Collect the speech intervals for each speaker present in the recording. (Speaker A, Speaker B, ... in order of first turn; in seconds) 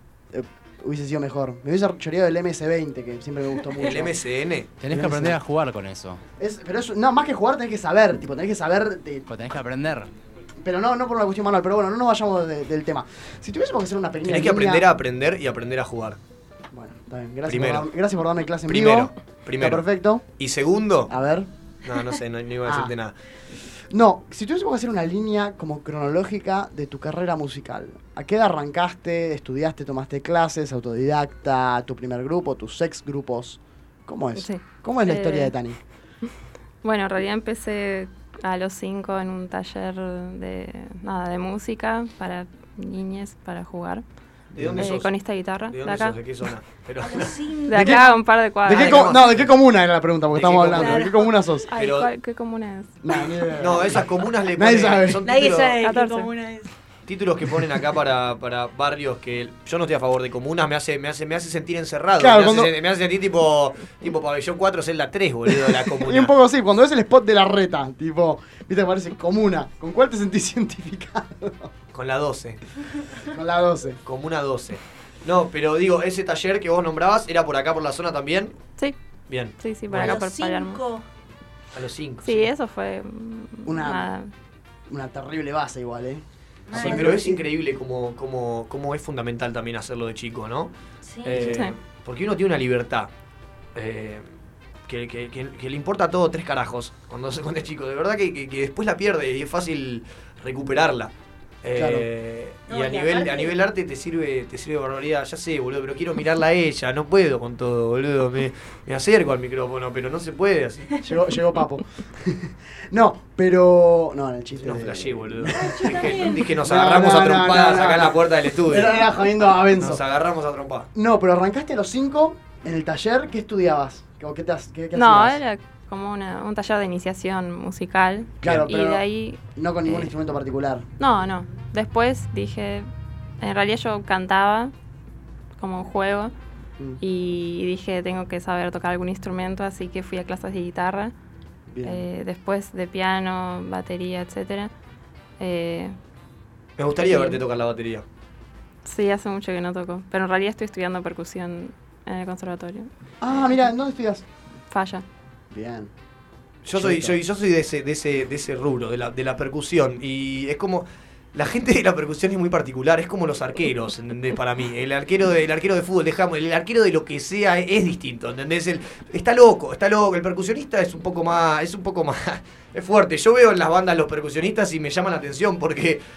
Speaker A: 0.3-4.2, 4.9-5.4, 6.4-9.2, 10.6-14.8, 16.7-20.2, 21.1-21.5, 22.6-22.9, 23.9-35.8, 44.5-44.8, 48.6-51.7, 53.0-55.2, 62.2-62.7, 65.6-71.7, 73.3-74.0, 83.7-84.1, 84.9-87.4, 101.7-102.0, 111.0-120.0, 120.9-125.4, 128.4-130.9, 141.7-142.1, 153.2-154.2, 155.5-155.9, 156.7-157.2
Speaker B: 3.8-4.7, 14.2-16.2, 17.5-17.9, 18.7-19.9, 20.4-21.1, 21.8-23.1, 44.5-45.1, 45.7-48.0, 48.7-49.5, 50.3-51.1, 51.7-52.1, 53.6-55.8, 57.1-66.3, 71.9-72.6, 74.0-78.5, 79.3-80.2, 81.7-82.5, 86.7-90.7, 91.2-93.1, 93.7-94.2, 94.9-101.1, 101.6-111.0, 114.6-120.9, 128.4-128.7, 146.8-148.0, 156.6-176.0
Speaker C: 4.8-6.2, 9.3-10.1
Speaker D: 34.4-35.5, 36.8-44.0, 44.8-46.2, 47.7-49.1, 51.7-52.9, 55.8-56.3, 79.6-80.8, 82.2-84.3, 91.4-91.7, 124.9-129.4, 131.0-132.9, 133.4-134.7, 135.6-136.3, 137.0-141.1, 141.8-144.7, 145.4-145.9, 147.0-147.4, 148.8-152.9, 154.7-155.1
Speaker E: 47.0-48.1, 50.7-51.4, 55.2-56.7, 79.9-81.0, 86.7-87.1, 91.0-91.5, 102.7-103.6, 115.5-116.5